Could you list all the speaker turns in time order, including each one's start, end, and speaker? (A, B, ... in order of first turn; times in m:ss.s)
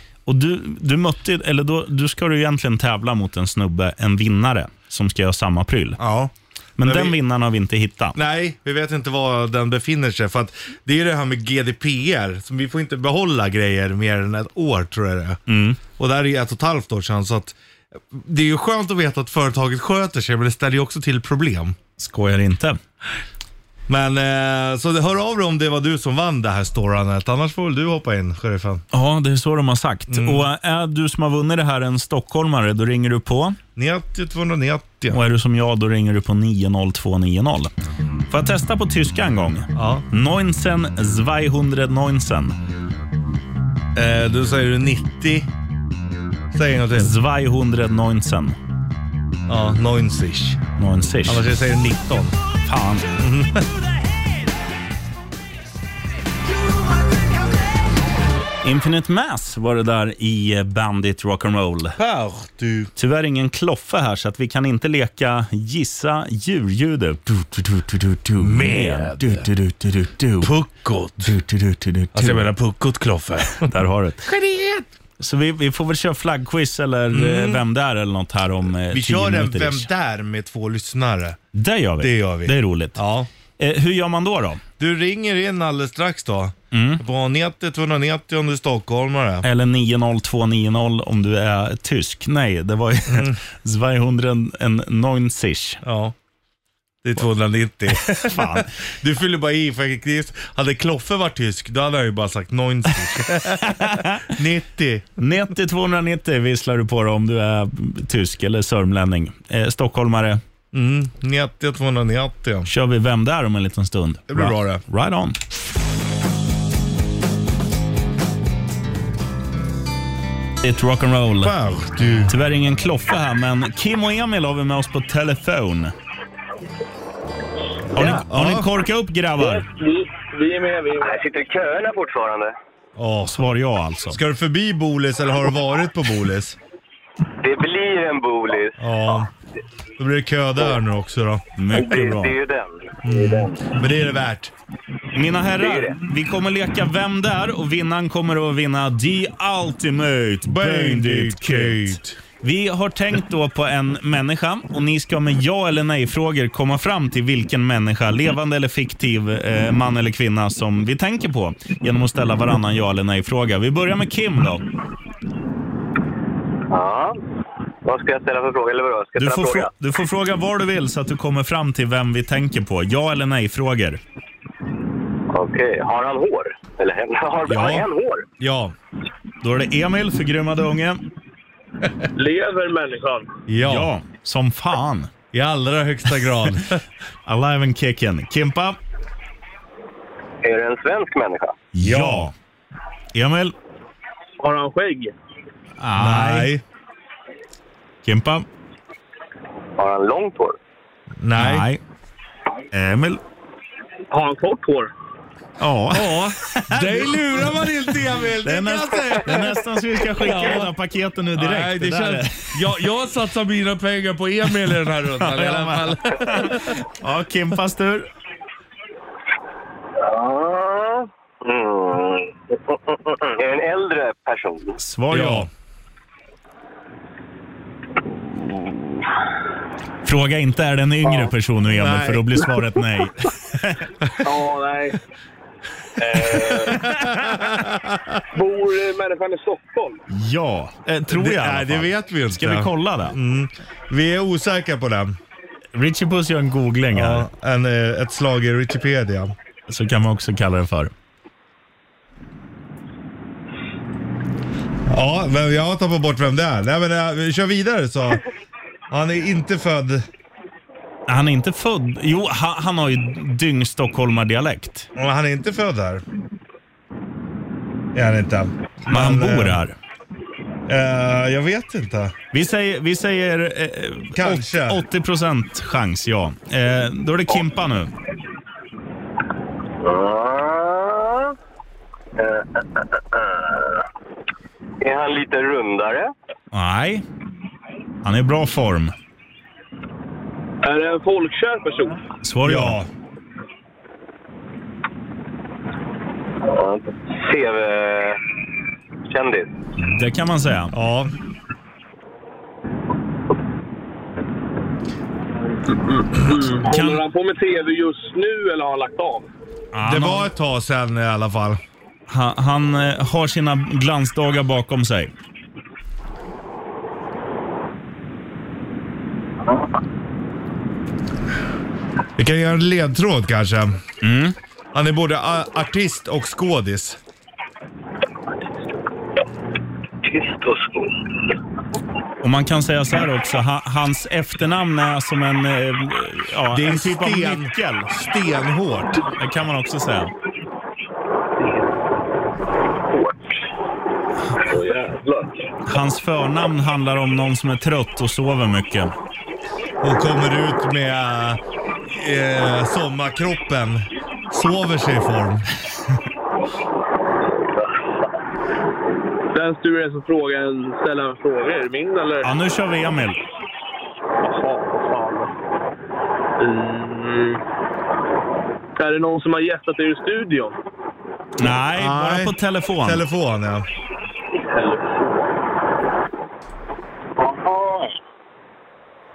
0:00.3-0:06.0 A
0:06.0-0:07.2 B
0:06.8-0:08.2 A
0:08.2-0:15.4 B
0:15.5-0:15.8 A
0:15.9-0:17.6 B
0:18.1-0:21.8 B
0:22.0-0:22.8 A
0:23.9-0:28.8 B
0:28.9-0:33.6 A
0:30.1-0:30.4 B
0:33.8-0:35.2 B
0:35.1-0:37.7 A
0:38.3-0:42.6 A
0:39.8-0:40.1 B
0:44.0-0:45.5 B
0:46.5-0:47.1 B
0:47.0-0:48.6 A
0:49.5-0:50.6 B
0:50.8-0:51.4 A
0:51.2-0:52.4 B
0:52.6-0:53.1 A
0:53.2-0:53.7 B
0:58.6-1:02.0 A
1:02.0-1:02.9 B
1:03.0-1:10.5 A
1:08.4-1:09.5 B
1:10.4-1:11.3 B
1:11.2-1:12.5 A
1:12.1-1:13.7 B
1:13.6-1:14.3 A
1:14.2-1:14.9 B
1:15.2-1:19.9 A
1:17.1-1:17.6 B
1:18.9-1:21.4 B
1:21.5-1:23.0 A
1:22.0-1:23.3 B
1:23.6-1:24.6 A
1:24.8-1:29.5 B
1:26.7-1:27.0 A
1:29.4-1:35.8 A
1:33.1-1:33.4 B
1:35.8-1:36.2 B
1:37.0-1:45.2 B
1:38.0-1:38.7 A
1:43.2-1:44.3 A
1:45.2-1:50.4 A
1:50.7-1:52.7 B
1:52.7-1:55.4 A
1:54.3-1:54.8 B
2:00.6-2:01.6 A
2:01.4-2:02.4 B
2:02.3-2:05.9 A
2:07.9-2:08.7 B
2:08.0-2:09.7 A
2:09.4-2:11.2 C
2:11.0-2:12.5 D
2:13.0-2:13.4 B
2:13.3-2:14.2 A
2:14.1-2:16.6 B
2:17.4-2:18.8 D
2:18.8-2:19.3 B
2:20.0-2:21.4 B
2:21.6-2:22.3 A
2:21.7-2:23.6 D
2:23.0-2:24.5 B
2:25.2-2:44.6 A
2:25.6-2:26.0 D
2:30.4-2:32.2 B
2:46.7-2:47.2 D
2:47.8-2:49.7 D
2:49.2-2:54.0 A
2:55.3-2:58.2 D
2:57.4-2:57.9 B
2:58.4-2:58.8 B
2:59.4-3:01.0 A
3:02.2-3:03.3 C
3:03.5-3:03.9 B
3:03.6-3:05.1 A
3:05.3-3:06.8 B
3:07.3-3:08.8 A
3:10.4-3:11.6 D
3:11.7-3:12.3 A
3:11.8-3:12.3 B
3:13.1-3:13.6 A
3:14.4-3:15.1 C
3:15.8-3:16.5 A
3:16.0-3:16.6 B
3:18.0-3:18.5 A
3:19.8-3:20.6 D
3:21.2-3:21.7 B
3:21.4-3:21.8 A
3:22.7-3:23.2 A
3:24.1-3:24.9 C
3:25.6-3:27.6 A
3:25.9-3:29.6 B
3:28.4-3:32.7 A
3:30.2-3:30.7 B
3:31.4-3:36.8 B
3:34.7-3:38.1 A
3:40.0-3:44.8 D
3:44.8-3:45.5 A
3:45.1-3:45.5 B
3:50.0-3:53.9 A
3:51.7-3:52.4 B
3:54.2-3:55.0 C
3:56.0-3:56.9 C
3:56.7-3:58.2 B
3:58.3-4:00.0 C
4:00.1-4:03.2 A
4:01.1-4:05.2 B
4:05.8-4:07.3 A
4:06.9-4:09.4 B
4:09.7-4:10.9 A
4:14.9-4:18.2 B
4:18.9-4:20.1 B
4:21.1-4:24.9 A
4:25.0-4:26.0 B
4:27.9-4:29.6 B
4:28.9-4:29.8 A
4:30.7-4:32.2 B
4:32.3-4:37.9 A
4:34.2-4:34.8 B
4:39.8-4:41.3 D
4:42.2-4:43.8 D
4:44.8-4:46.1 D
4:46.5-4:47.0 A
4:48.0-4:48.9 A
4:50.6-4:52.0 C
4:52.2-4:52.8 A
4:52.4-4:52.9 B
4:56.4-4:58.2 D
4:59.1-4:59.5 D
4:59.8-5:00.7 A
5:00.7-5:01.1 B
5:05.7-5:09.3 C
5:06.7-5:07.0 A
5:09.7-5:10.3 A
5:09.8-5:11.6 B
5:12.1-5:15.1 A
5:22.2-5:23.8 B
5:24.0-5:24.4 A
5:24.7-5:27.0 B
5:30.0-5:30.9 D
5:32.2-5:37.9 A
5:36.5-5:39.0 B
5:39.1-5:40.1 A
5:44.4-5:45.4 C
5:45.7-5:48.9 A
5:49.8-5:55.4 B
5:59.3-6:02.3 C
6:02.2-6:03.2 A
6:04.2-6:05.3 C
6:06.4-6:07.4 C
6:08.8-6:10.6 C
6:11.4-6:13.0 A
6:11.8-6:13.7 B
6:14.5-6:15.4 C